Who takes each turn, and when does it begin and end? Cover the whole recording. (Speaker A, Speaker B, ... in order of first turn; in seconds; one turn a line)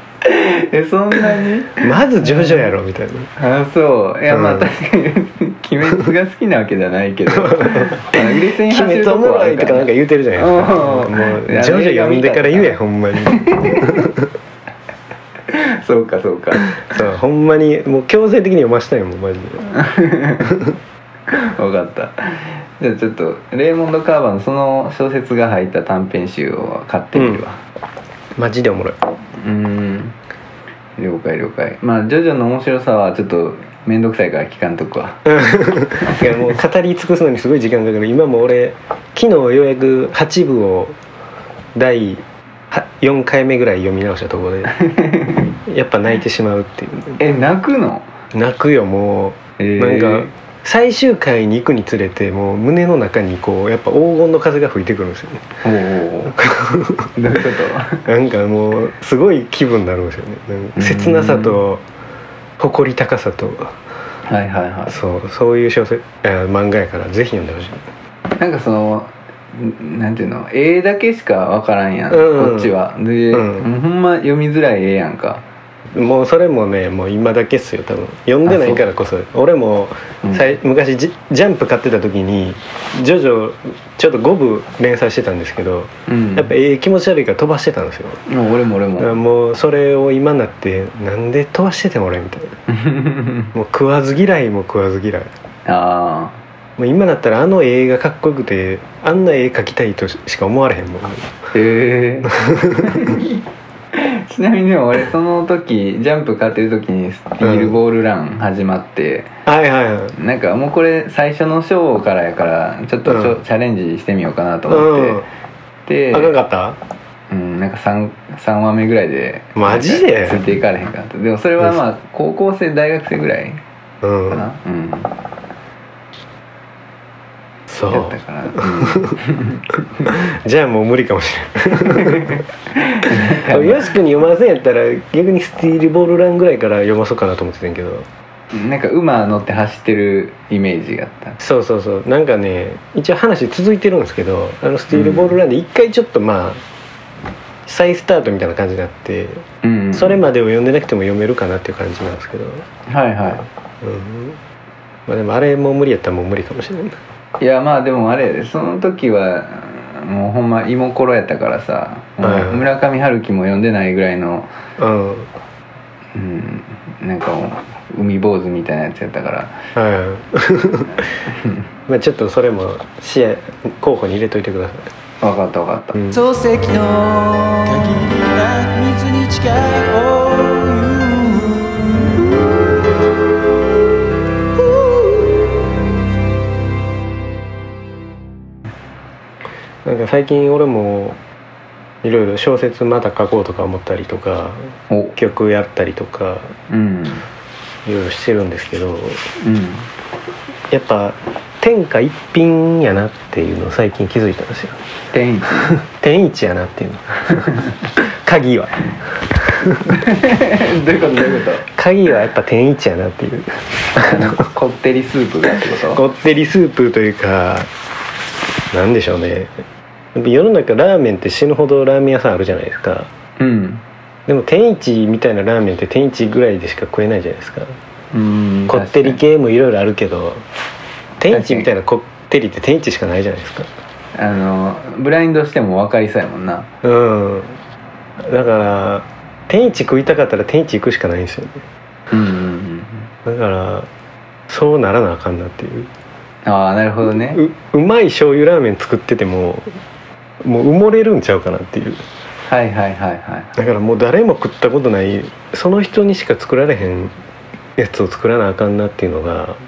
Speaker A: 0.2-2.7
Speaker B: 1.8-3.3
Speaker A: 3.4-12.8
Speaker B: 4.3-4.7
Speaker B: 7.3-14.2
Speaker A: 13.3-14.0
Speaker A: 15.5-16.8
Speaker B: 16.8-19.6
Speaker A: 19.7-20.6
Speaker A: 21.3-27.6
Speaker B: 27.1-27.4
Speaker B: 28.4-29.0
Speaker A: 29.4-30.1
Speaker A: 31.0-35.3
Speaker B: 35.3-41.0
Speaker B: 41.7-44.7
Speaker A: 44.8-45.5
Speaker B: 45.6-47.2
Speaker A: 47.2-48.1
Speaker B: 48.3-55.5
Speaker A: 49.6-50.3
Speaker A: 55.6-56.4
Speaker B: 56.3-57.1
Speaker A: 57.1-58.0
Speaker B: 58.0-61.8
Speaker A: 60.8-61.6
Speaker B: 62.6-63.7
Speaker A: 64.2-65.0
Speaker B: 64.9-67.8
Speaker A: 68.4-75.4
Speaker B: 72.1-72.7
Speaker B: 73.3-73.7
Speaker B: 75.9-88.2
Speaker A: 78.5-78.8
Speaker A: 80.2-80.5
Speaker A: 86.1-86.5
Speaker A: 88.3-89.2
Speaker B: 89.0-92.5
Speaker A: 92.7-93.5
Speaker B: 93.5-95.3
Speaker A: 95.7-96.4
Speaker B: 96.8-101.3
Speaker A: 101.5-103.4
Speaker B: 102.3-103.1
Speaker A: 103.9-109.3
Speaker B: 107.4-107.8
Speaker B: 109.5-110.1
Speaker A: 110.1-115.2
Speaker B: 113.0-113.3
Speaker B: 114.7-115.2
Speaker A: 115.9-116.3
Speaker B: 116.1-116.8
Speaker A: 117.3-123.6
Speaker B: 119.5-120.4
Speaker B: 124.0-124.4
Speaker A: 124.3-125.1
Speaker B: 127.7-129.2
Speaker A: 127.9-130.1
Speaker B: 130.1-132.4
Speaker A: 131.9-133.9
Speaker B: 133.1-138.1
Speaker A: 138.5-141.4
Speaker B: 141.4-146.6
Speaker A: 144.9-145.4
Speaker B: 147.7-152.6
Speaker A: 149.6-150.2
Speaker A: 152.9-153.5
Speaker B: 153.8-154.4
Speaker B: 155.1-157.0
Speaker A: 157.4-164.5
Speaker B: 162.2-162.7
Speaker B: 164.8-165.3
Speaker A: 166.1-169.6
Speaker B: 169.7-171.0
Speaker A: 171.3-171.6
Speaker B: 171.9-174.9
Speaker A: 175.2-176.0
Speaker B: 175.9-176.2
Speaker C: 176.1-182.4
Speaker B: 189.8-191.2
Speaker B: 192.0-196.5
Speaker A: 194.9-195.2
Speaker A: 196.7-197.3
Speaker B: 197.8-199.2
Speaker A: 199.4-199.9
Speaker B: 200.7-204.8
Speaker A: 205.1-205.8
Speaker B: 205.8-208.8
Speaker A: 207.3-207.7
Speaker B: 209.4-209.8
Speaker A: 209.8-211.7
Speaker B: 211.7-214.3
Speaker A: 213.9-216.0
Speaker B: 215.9-217.7
Speaker B: 218.7-219.5
Speaker B: 220.1-223.1
Speaker A: 223.4-223.8
Speaker B: 224.3-227.7
Speaker A: 228.1-229.2
Speaker B: 228.7-230.4
Speaker B: 231.2-233.7
Speaker A: 231.3-231.7
Speaker A: 234.2-236.7
Speaker B: 236.8-237.6
Speaker B: 238.2-241.6
Speaker A: 242.1-243.1
Speaker B: 243.2-243.9
Speaker B: 244.5-245.9
Speaker A: 246.4-247.4
Speaker B: 247.3-249.7
Speaker B: 250.4-252.0
Speaker A: 252.5-253.6
Speaker B: 253.6-257.1
Speaker B: 257.8-259.6